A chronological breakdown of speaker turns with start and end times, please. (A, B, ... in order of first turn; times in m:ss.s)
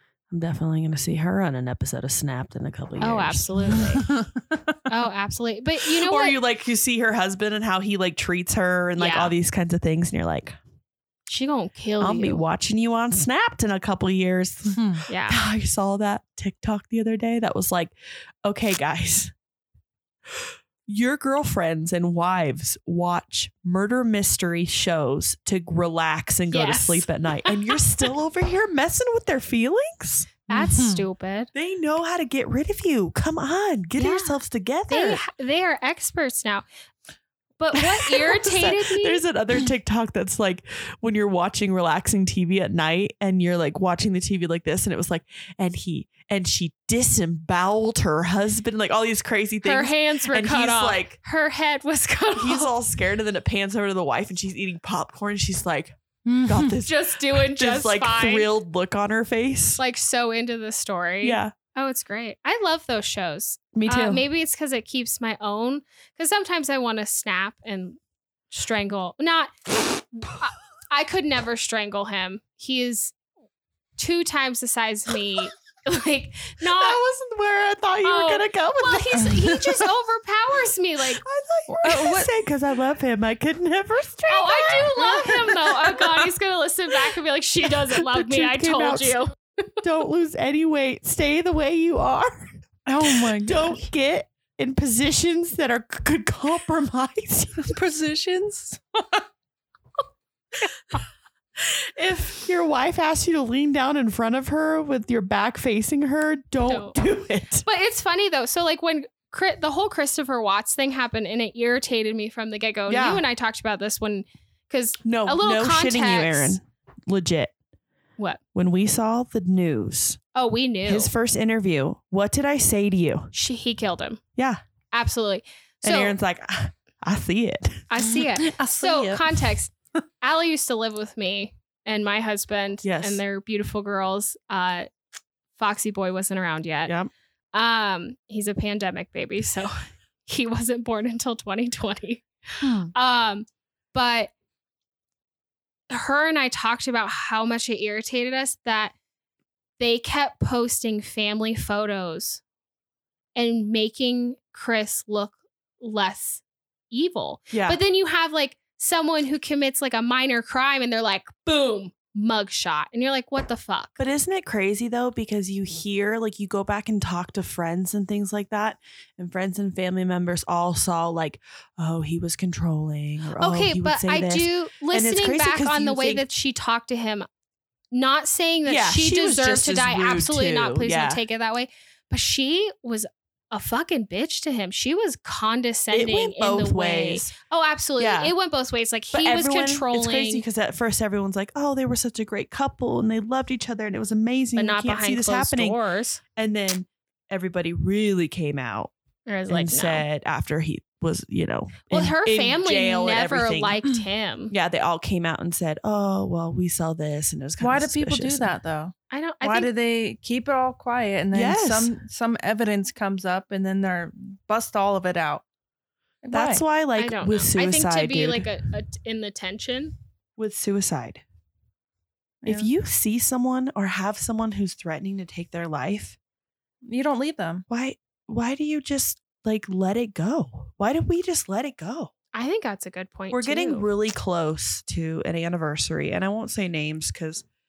0:00.3-0:03.8 A
0:03.0-0:04.1 B
0:03.8-0:04.7 C
0:04.9-0:06.4 B
0:05.9-0:10.6 A
0:09.0-0:09.3 B
0:11.3-0:12.4 B
0:12.0-0:19.3 A
0:14.8-0:15.0 C
0:15.1-0:15.4 B
0:20.3-0:30.3 A
0:26.5-0:27.8 B
0:30.5-0:31.5 B
0:30.5-0:31.0 C
0:31.5-0:35.2 A
0:34.0-0:36.6 B
0:37.6-0:39.2 B
0:37.7-0:51.2 A
0:49.6-0:52.7 B
0:52.4-0:59.8 A
0:56.3-0:56.8 C
0:56.8-0:58.5 B
0:59.8-1:08.0 B
1:01.2-1:01.5 A
1:03.7-1:04.2 A
1:08.5-1:09.5 B
1:10.1-1:13.2 B
1:14.0-1:17.0 B
1:16.6-1:19.3 A
1:18.0-1:21.2 B
1:21.2-1:26.4 A
1:21.7-1:22.3 C
1:24.3-1:29.3 B
1:27.0-1:29.2 A
1:29.8-1:37.7 A
1:32.9-1:33.8 C
1:37.6-1:39.2 C
1:41.6-1:47.7 A
1:46.6-1:47.0 B
1:47.6-1:56.6 B
1:52.9-1:53.2 A
1:55.0-1:57.5 A
1:58.6-2:00.2 A
2:00.3-2:01.1 B
2:00.8-2:03.3 A
2:03.3-2:04.2 B
2:04.9-2:06.2 B
2:05.8-2:07.9 A
2:07.9-2:14.9 B
2:08.1-2:09.4 C
2:12.8-2:13.2 A
2:15.6-2:17.0 B
2:17.5-2:19.7 B
2:20.2-2:22.3 B
2:22.9-2:24.3 B
2:25.9-2:28.9 B
2:29.8-2:32.4 B
2:33.4-2:44.0 B
2:37.5-2:37.8 A
2:44.0-2:56.3 A
2:53.4-2:57.3 B
2:57.9-3:10.4 B
2:58.6-3:01.2 A
3:05.9-3:07.3 A
3:08.0-3:08.3 A
3:09.1-3:15.8 A
3:14.6-3:16.2 B
3:16.4-3:18.9 A
3:19.3-3:20.0 B
3:19.5-3:23.8 A
3:21.9-3:24.5 B
3:24.5-3:28.5 A
3:27.6-3:35.4 C
3:29.1-3:29.7 B
3:31.3-3:32.0 A
3:36.2-3:36.6 C
3:36.3-3:38.5 A
3:37.0-3:39.9 B
3:40.4-3:41.2 A
3:42.4-3:42.7 C
3:42.5-3:46.2 A
3:46.8-3:47.6 C
3:47.7-3:52.1 A
3:52.3-3:53.9 B
3:53.3-3:57.4 A